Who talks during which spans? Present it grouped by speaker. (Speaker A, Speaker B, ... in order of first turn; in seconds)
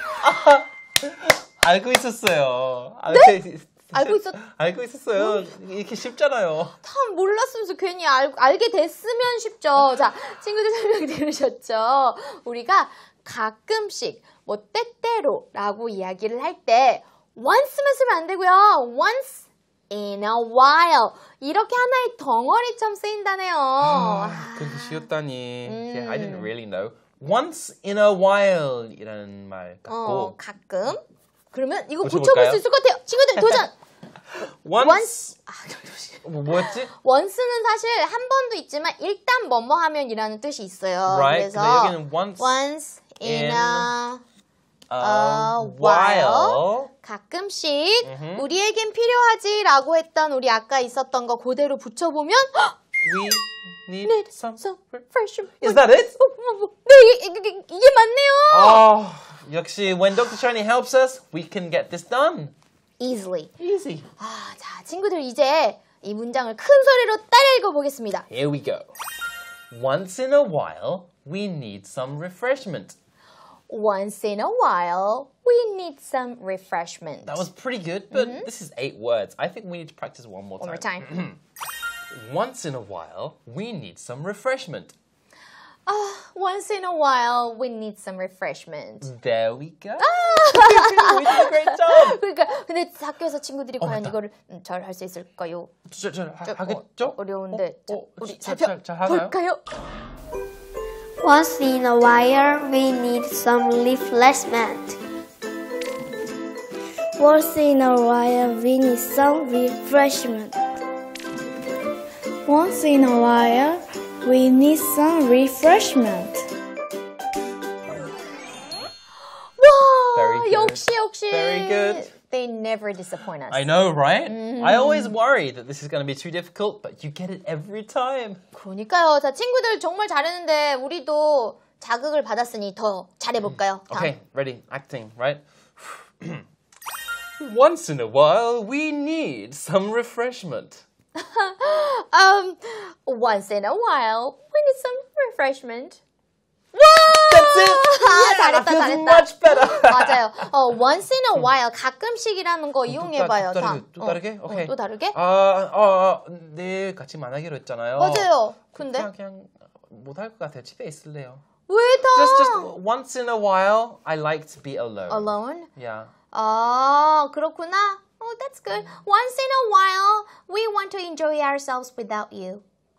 Speaker A: 0.2-6.8, 23.8-30.4, 32.0-32.6, 34.6-35.4, 36.2-36.9, 41.1-42.5, 43.2-43.9, 44.9-46.9, 48.0-48.4, 53.0-55.0, 55.6-56.2, 58.5-62.5, 63.6-64.1, 68.3-68.9, 69.7-73.0, 77.2-81.4, 82.1-84.9, 89.0-92.2, 93.8-94.2, 95.9-99.4, 120.1-122.1, 123.5-128.4, 133.4-136.4, 137.4-140.8, 146.8-150.2, 152.9-161.4, 162.1-166.1
Speaker B: 3.1-3.4, 3.9-4.4, 5.2-5.4, 6.8-25.1, 25.6-26.5, 29.9-31.0, 31.5-33.7, 34.8-44.2, 45.0-52.8, 54.0-58.8, 63.0-63.5, 64.2-68.3, 73.7-77.5, 78.1-78.5, 80.6-81.2, 85.9-89.1, 90.0-95.7, 96.5-99.6, 119.6-123.7, 124.3-125.1, 128.5-134.1, 141.2-146.0, 147.0-155.2, 158.0-159.1, 161.7-162.7, 165.1-165.7, 166.3-172.6
Speaker C: 101.2-105.0, 107.2-110.6, 112.5-116.4